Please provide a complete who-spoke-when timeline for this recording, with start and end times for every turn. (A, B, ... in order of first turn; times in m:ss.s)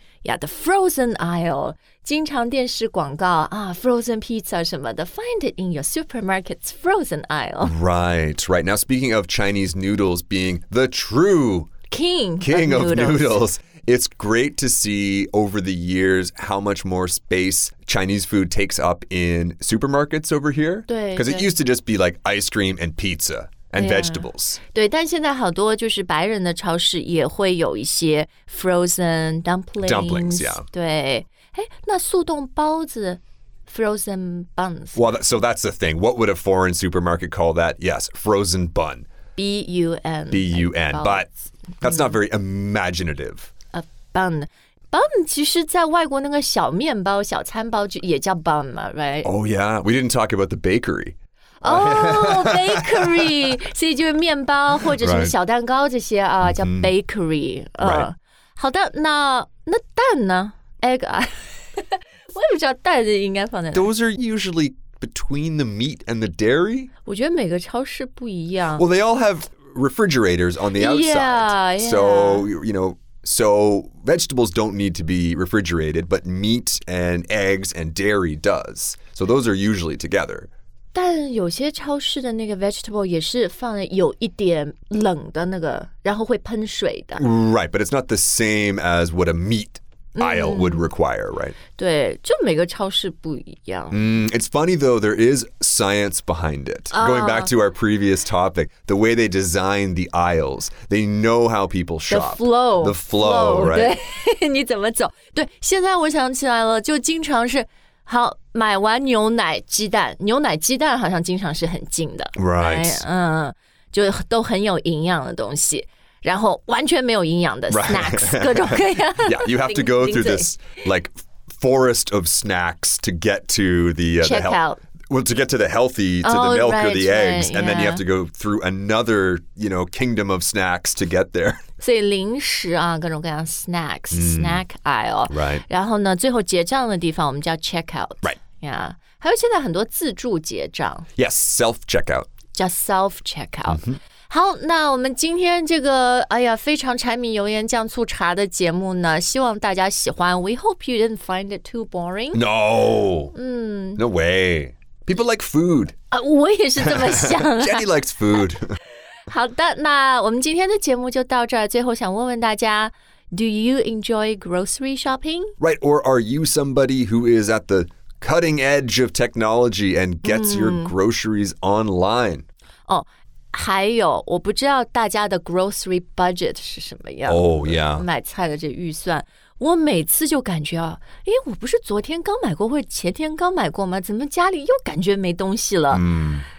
0:00.2-0:07.7 A
0:07.6-0:11.7 B
0:11.9-0:13.4 A
0:12.4-0:24.6 B
0:20.9-0:21.5 A
0:23.8-0:35.1 A
0:29.8-0:30.6 B
0:35.0-0:39.1 B
0:39.4-0:42.2 A
0:40.3-0:41.3 B
0:41.8-0:43.5 B
0:43.7-0:49.3 A
0:49.2-0:53.3 B
0:51.6-1:03.9 A
0:54.8-0:55.4 B
0:56.4-0:56.9 B
0:57.8-0:58.1 B
1:03.7-1:06.9 B
1:07.0-1:08.8 A
1:08.8-1:20.5 B
1:10.8-1:12.5 A
1:20.9-1:27.2 A
1:27.2-1:31.6 B
1:30.2-1:30.9 A
1:31.8-1:34.0 A
1:33.9-1:44.0 B
1:36.9-1:37.5 A
1:42.1-2:00.6 A
1:52.4-1:53.0 B
1:57.7-2:11.6 B
2:04.2-2:04.8 A
2:06.2-2:08.0 A
2:11.8-2:21.1 A
2:14.1-2:14.6 B
2:15.3-2:15.6 B
2:21.2-2:22.3 B
2:22.5-2:32.4 A
2:23.7-2:24.0 B
2:32.3-2:33.4 B
2:33.3-2:34.0 A
2:34.0-2:36.0 B
2:36.1-2:37.9 A
2:36.8-2:38.8 B
2:39.3-2:45.5 A
2:45.6-2:52.5 B
2:50.2-2:50.9 A
2:52.9-3:06.0 A
2:57.3-2:58.1 B
3:05.9-3:06.5 B